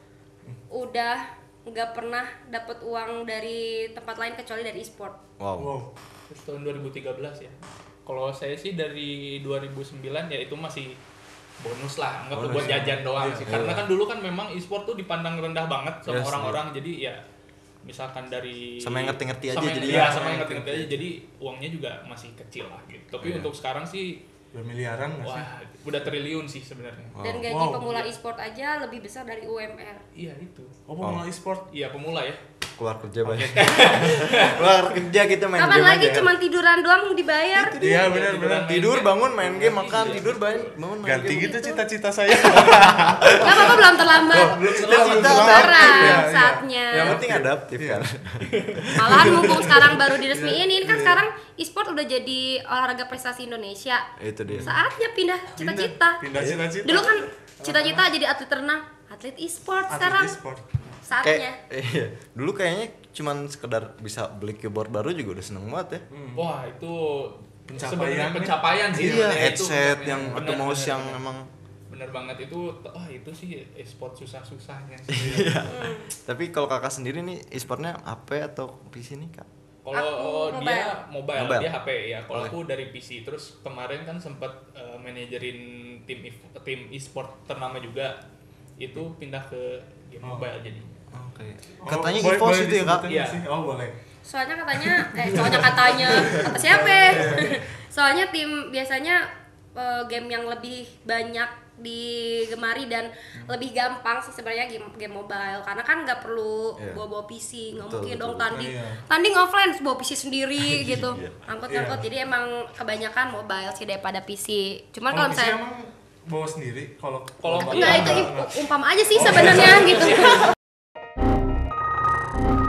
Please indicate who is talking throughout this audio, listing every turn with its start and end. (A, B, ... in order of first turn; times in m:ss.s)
0:00.7-0:05.2 A
0:05.4-0:05.7 B
0:05.6-0:05.9 C
0:06.3-0:11.0 D
0:11.6-0:17.2 D
0:12.3-0:13.9 B
0:12.5-0:13.6 C
0:16.1-0:16.6 B
0:17.8-0:24.2 D
0:18.8-0:20.4 B
0:19.8-0:21.0 C
0:23.2-0:23.5 B
0:24.5-0:25.5 C
0:25.2-0:27.2 D
0:27.1-0:27.5 B
0:27.2-0:30.0 A
0:27.5-0:28.0 C
0:30.2-0:30.8 D
0:30.9-0:31.7 C
0:31.0-0:31.2 B
0:31.7-0:32.4 D
0:32.8-0:36.3 B
0:33.2-0:34.1 C
0:33.5-0:34.6 D
0:35.6-0:37.8 A
0:37.5-0:41.5 B
0:37.8-0:38.8 C
0:37.9-0:40.8 D
0:39.5-0:40.3 C
0:41.0-0:48.1 C
0:41.2-0:41.8 A
0:42.5-0:46.3 B
0:43.4-0:47.2 A
0:46.9-0:50.0 B
0:48.5-0:48.8 D
0:49.0-0:54.1 A
0:49.1-0:51.2 C
0:54.2-0:54.8 B
0:54.5-0:54.8 C
0:54.6-0:56.2 A
0:55.6-0:58.0 C
0:56.3-0:56.7 B
0:56.8-1:00.4 A
0:59.9-1:00.9 C
1:01.0-1:01.6 A
1:01.2-1:06.0 B
1:06.1-1:06.5 C
1:06.4-1:11.2 D
1:07.7-1:09.5 C
1:08.9-1:11.5 B
1:11.9-1:15.5 D
1:15.1-1:19.5 B
1:15.2-1:15.6 C
1:15.7-1:16.1 A
1:19.8-1:28.2 D
1:19.9-1:21.0 A
1:21.4-1:21.7 B
1:28.8-1:31.0 D
1:31.1-1:33.1 B
1:31.8-1:34.0 C
1:33.1-1:33.4 D
1:34.2-1:55.6 A
1:34.8-1:37.6 C
1:47.8-1:48.5 B
1:48.5-1:49.0 C
1:50.6-1:51.4 B
1:51.7-1:52.1 C
1:55.1-1:58.6 C
1:57.4-1:58.2 D
1:57.6-2:00.4 A
1:59.2-2:00.2 C
1:59.7-2:00.4 D